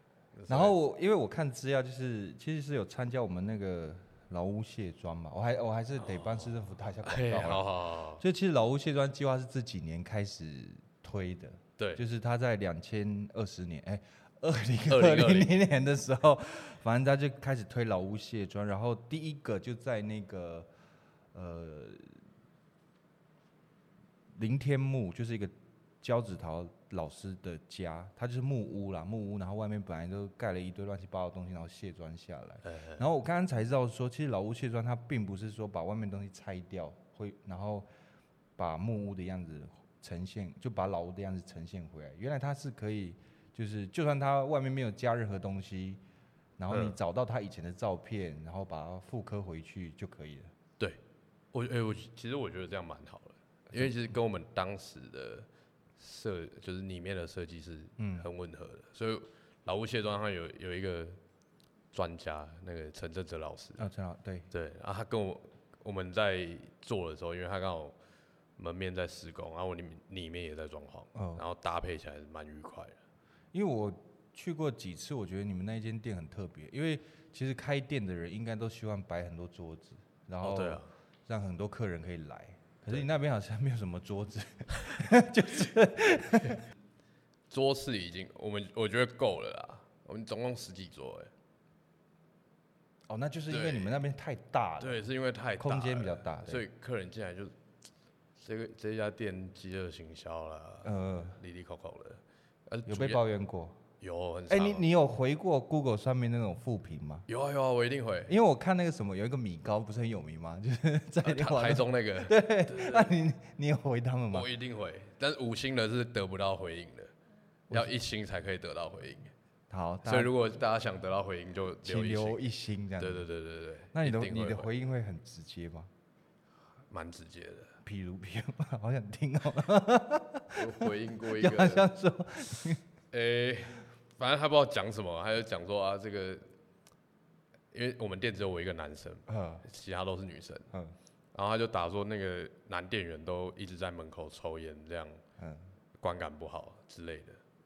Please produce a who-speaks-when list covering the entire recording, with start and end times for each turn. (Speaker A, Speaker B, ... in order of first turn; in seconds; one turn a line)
Speaker A: 0.3-0.8
Speaker B: 0.5-7.7
Speaker A: 6.0-8.2
Speaker B: 8.2-20.7
Speaker A: 11.8-12.0
Speaker A: 14.9-15.5
Speaker B: 21.3-22.2
Speaker B: 24.3-37.9
Speaker A: 32.6-33.1
Speaker B: 38.6-46.0
Speaker B: 46.6-50.5
Speaker A: 46.7-47.0
Speaker A: 51.5-61.2
Speaker B: 58.0-58.3
Speaker A: 61.9-63.9
Speaker B: 63.8-64.5
Speaker A: 64.5-68.0
Speaker A: 68.6-73.0
Speaker B: 71.1-71.4
Speaker B: 73.5-86.6
Speaker A: 80.4-80.9
Speaker A: 87.5-91.3
Speaker B: 93.1-95.0
Speaker A: 93.5-94.0
Speaker A: 94.8-97.5
Speaker B: 95.6-96.6
Speaker A: 98.4-103.2
Speaker B: 100.8-101.4
Speaker B: 102.8-103.8
Speaker A: 104.0-104.9
Speaker B: 104.5-107.3
Speaker A: 107.3-108.3
Speaker B: 108.3-114.5
Speaker A: 111.2-113.1
Speaker A: 114.3-117.1
Speaker A: 117.7-119.3
Speaker B: 119.7-120.3
Speaker A: 120.0-122.4
Speaker B: 121.8-123.3
Speaker A: 123.0-124.7
Speaker B: 123.9-125.9
Speaker A: 126.9-127.8
Speaker B: 127.8-132.8
Speaker A: 130.5-131.9
Speaker A: 133.1-136.5
Speaker A: 137.7-140.7
Speaker B: 139.3-139.6
Speaker A: 141.3-145.2
Speaker B: 145.4-145.7
Speaker A: 146.0-147.4